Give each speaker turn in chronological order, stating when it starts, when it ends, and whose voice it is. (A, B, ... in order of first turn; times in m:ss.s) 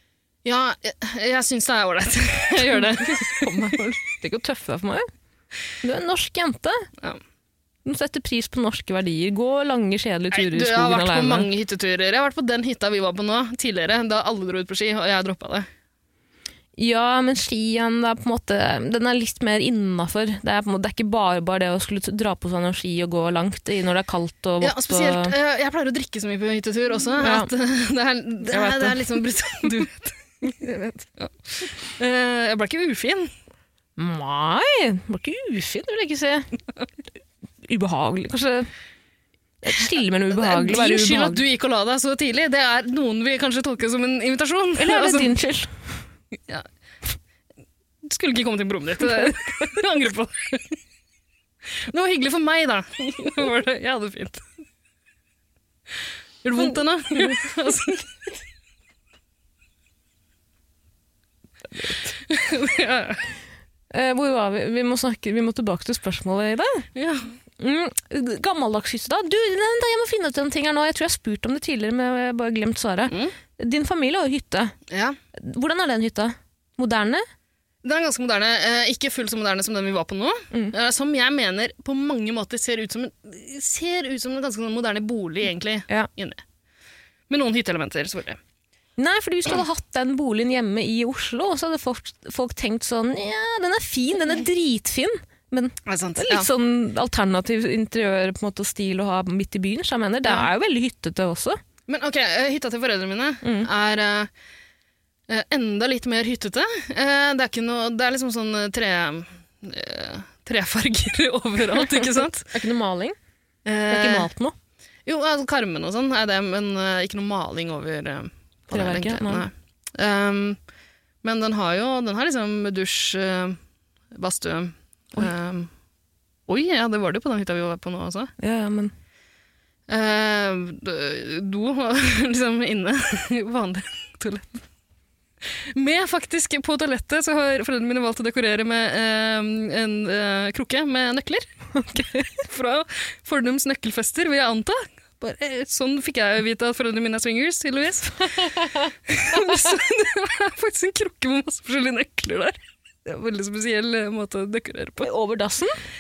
0:00.4-0:03.8 A
0:02.7-0:05.1 B
0:05.8-0:06.9 B
0:07.8-0:11.5 B
0:10.3-0:15.7 A
0:16.8-0:25.4 B
0:24.6-0:30.2 A
0:27.2-0:27.5 B
0:28.5-0:29.2 B
0:30.4-0:31.1 B
0:31.2-0:33.3 A
0:34.0-0:36.5 B
0:37.6-0:38.7 B
0:39.6-0:41.4 B
0:40.3-0:45.3 A
0:44.8-0:46.0 B
0:48.0-0:50.8 A
0:51.8-0:54.4 A
0:56.4-0:58.2 A
1:02.1-1:03.3 A
1:03.9-1:06.9 B
1:07.0-1:07.4 A
1:07.6-1:14.7 B
1:13.1-1:13.4 A
1:14.9-1:15.2 A
1:15.4-1:17.2 B
1:17.8-1:26.4 A
1:27.3-1:28.4 A
1:29.0-1:41.6 B
1:35.9-1:36.5 A
1:41.9-1:44.3 A
1:43.4-1:43.7 B
1:45.3-1:52.5 A
1:51.8-1:53.2 B
1:53.7-1:54.3 A
1:53.9-1:54.6 B
1:55.1-2:00.6 A
1:58.7-1:59.5 B
2:01.2-2:03.6 A
2:04.1-2:05.7 A
2:06.5-2:08.3 A
2:08.4-2:08.9 B
2:09.9-2:14.6 A
2:15.6-2:21.5 A
2:21.7-2:22.4 B
2:22.4-2:28.5 A
2:29.1-2:35.1 A
2:35.0-2:35.8 B